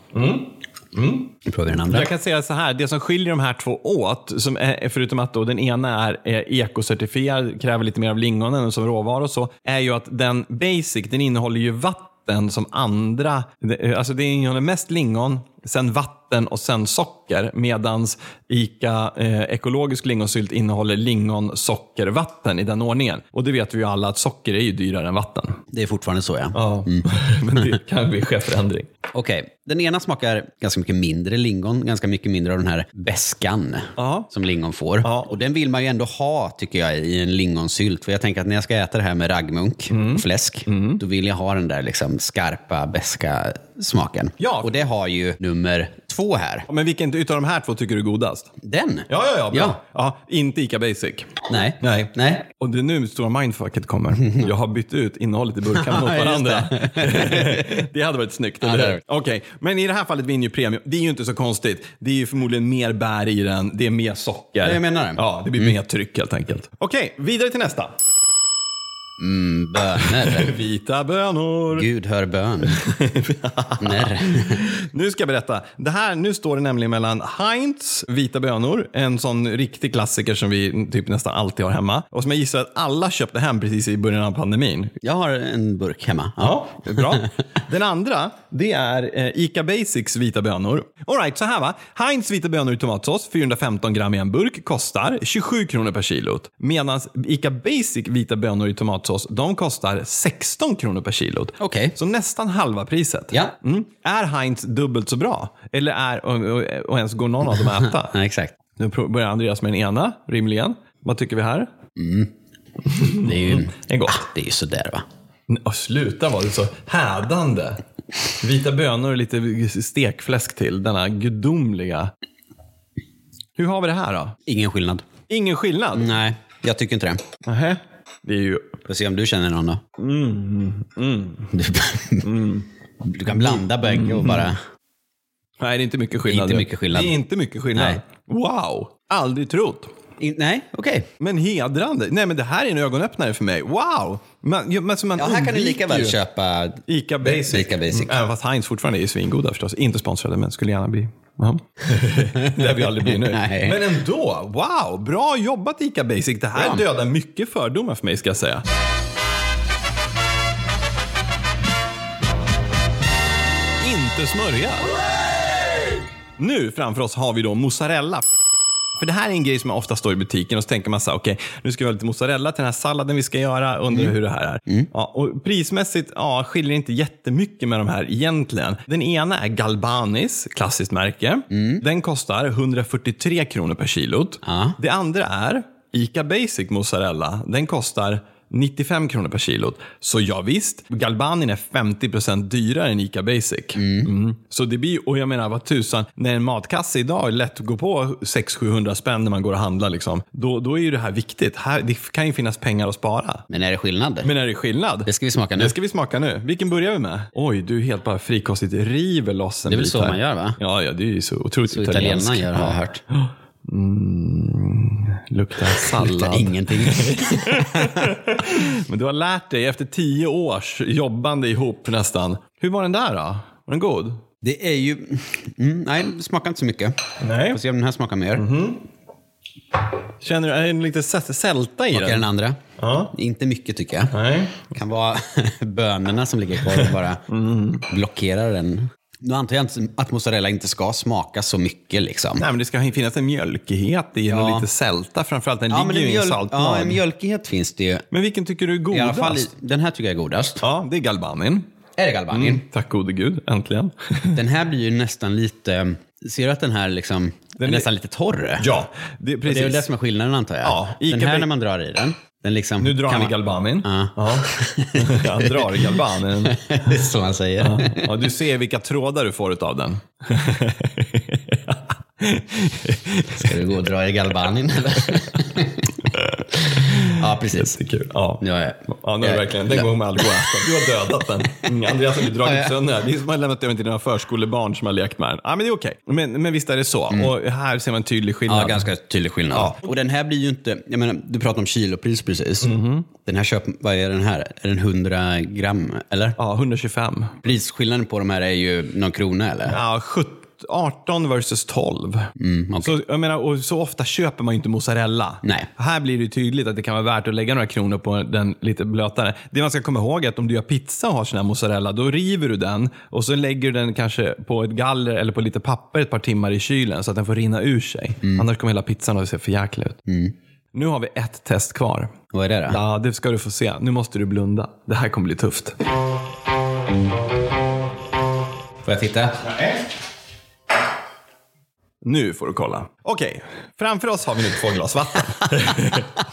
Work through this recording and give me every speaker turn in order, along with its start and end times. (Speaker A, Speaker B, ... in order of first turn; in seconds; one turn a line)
Speaker A: 0.1-1.3
Speaker B: 1.4-2.1
Speaker A: 1.8-25.6
Speaker B: 25.7-27.7
Speaker A: 26.5-28.9
Speaker B: 29.1-46.7
Speaker A: 34.0-34.3
Speaker A: 35.0-35.3
Speaker A: 39.9-41.0
Speaker A: 44.4-44.8
Speaker A: 46.7-48.5
Speaker B: 48.6-49.8
Speaker A: 49.1-67.9
Speaker B: 51.5-52.5
Speaker B: 54.2-54.5
Speaker B: 55.7-57.8
Speaker B: 58.6-59.0
Speaker B: 64.6-65.8
Speaker B: 69.2-70.5
Speaker A: 69.9-71.9
Speaker B: 71.7-72.8
Speaker A: 72.6-84.9
Speaker B: 73.8-74.7
Speaker B: 85.0-87.3
Speaker A: 86.4-108.1
Speaker B: 101.6-102.0
Speaker B: 107.5-108.5
Speaker A: 108.8-111.7
Speaker B: 112.0-112.3
Speaker A: 112.8-114.2
Speaker B: 113.0-115.0
Speaker A: 115.5-117.8
Speaker A: 118.4-122.1
Speaker A: 123.5-124.3
Speaker B: 124.5-125.0
Speaker A: 125.3-126.1
Speaker B: 125.9-127.2
Speaker A: 127.4-128.7
Speaker B: 128.8-129.8
Speaker A: 130.0-131.5
Speaker B: 131.5-132.3
Speaker A: 132.2-132.7
Speaker B: 133.0-134.6
Speaker A: 133.2-134.5
Speaker A: 135.6-139.9
Speaker B: 136.3-137.1
Speaker B: 137.7-138.0
Speaker B: 140.2-141.1
Speaker A: 141.2-146.2
Speaker B: 145.2-148.2
Speaker A: 146.9-158.6
Speaker B: 152.3-153.9
Speaker B: 156.6-156.8
Speaker A: 163.8-165.0
Speaker A: 166.4-168.2
Speaker A: 169.0-203.5
Speaker B: 181.5-181.8
Speaker B: 184.4-184.8
Speaker B: 193.8-194.1
Speaker B: 203.5-204.3
Speaker A: 204.2-224.2
Speaker B: 205.1-205.7
Speaker B: 209.7-210.6
Speaker B: 211.7-213.0
Speaker B: 215.7-218.2
Speaker B: 224.4-226.9
Speaker A: 227.2-227.6
Speaker B: 227.5-228.5
Speaker A: 228.3-228.8
Speaker A: 230.2-233.1
Speaker B: 231.9-232.6
Speaker B: 233.1-234.2
Speaker A: 234.1-234.7
Speaker B: 234.7-237.2
Speaker A: 236.7-237.9
Speaker B: 237.9-242.4
Speaker A: 242.4-247.0
Speaker B: 244.3-244.7
Speaker B: 245.7-248.1
Speaker A: 248.1-249.5
Speaker B: 248.9-250.6
Speaker A: 250.6-251.6
Speaker B: 252.0-252.6
Speaker A: 252.3-254.4
Speaker B: 254.3-258.7
Speaker A: 257.6-257.9
Speaker A: 258.6-259.9
Speaker B: 259.4-268.1
Speaker A: 260.6-261.5
Speaker A: 262.8-266.6
Speaker A: 267.6-273.8
Speaker B: 273.3-277.8
Speaker A: 274.9-275.4
Speaker A: 276.1-288.9
Speaker B: 278.4-282.8
Speaker B: 288.5-296.4
Speaker A: 289.5-289.9
Speaker A: 292.6-293.1
Speaker A: 296.4-297.4
Speaker B: 297.4-299.8
Speaker A: 299.7-302.3
Speaker B: 302.4-302.9
Speaker A: 302.8-320.0
Speaker B: 305.4-305.7
Speaker B: 320.1-320.3
Speaker A: 320.7-322.1
Speaker B: 322.3-322.8
Speaker A: 322.7-325.7
Speaker B: 328.8-329.5
Speaker A: 329.4-329.8
Speaker A: 332.0-336.1